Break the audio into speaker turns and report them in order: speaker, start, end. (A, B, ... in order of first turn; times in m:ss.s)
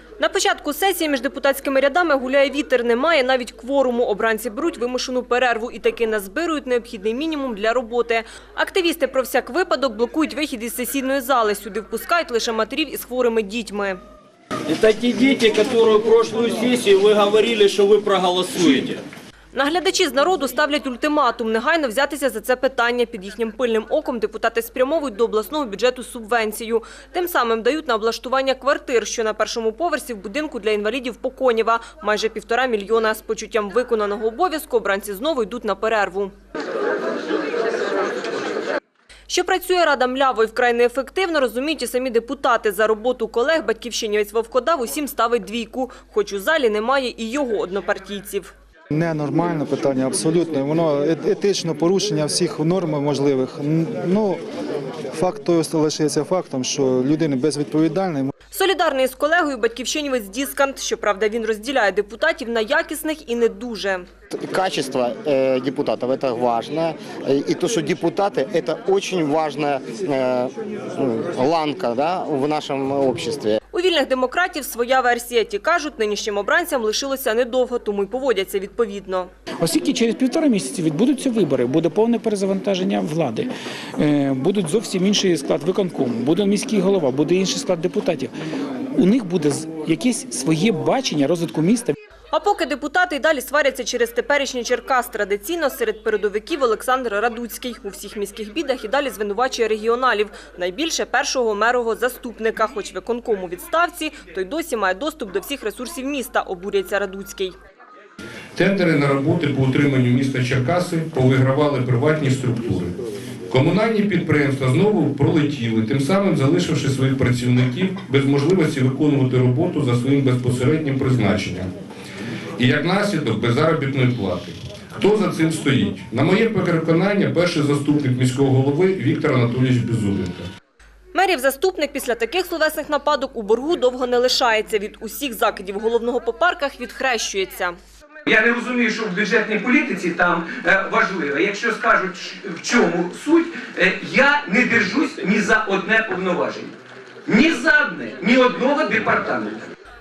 0:00.2-0:14.0 A
0:14.7-0:19.0 B
0:19.5-0:36.3 A
0:39.3-0:48.5 A
0:48.9-0:54.4 C
0:55.1-0:58.3 C
0:58.5-1:04.0 A
1:04.3-1:13.6 D
1:13.7-1:19.3 A
1:19.6-1:28.3 E
1:29.0-1:32.0 E
1:32.3-1:47.6 A
1:48.6-1:52.9 F
1:53.5-2:01.7 F
2:02.6-2:10.5 F
2:11.1-2:17.8 A
2:18.3-2:26.7 G
2:27.3-2:29.7 G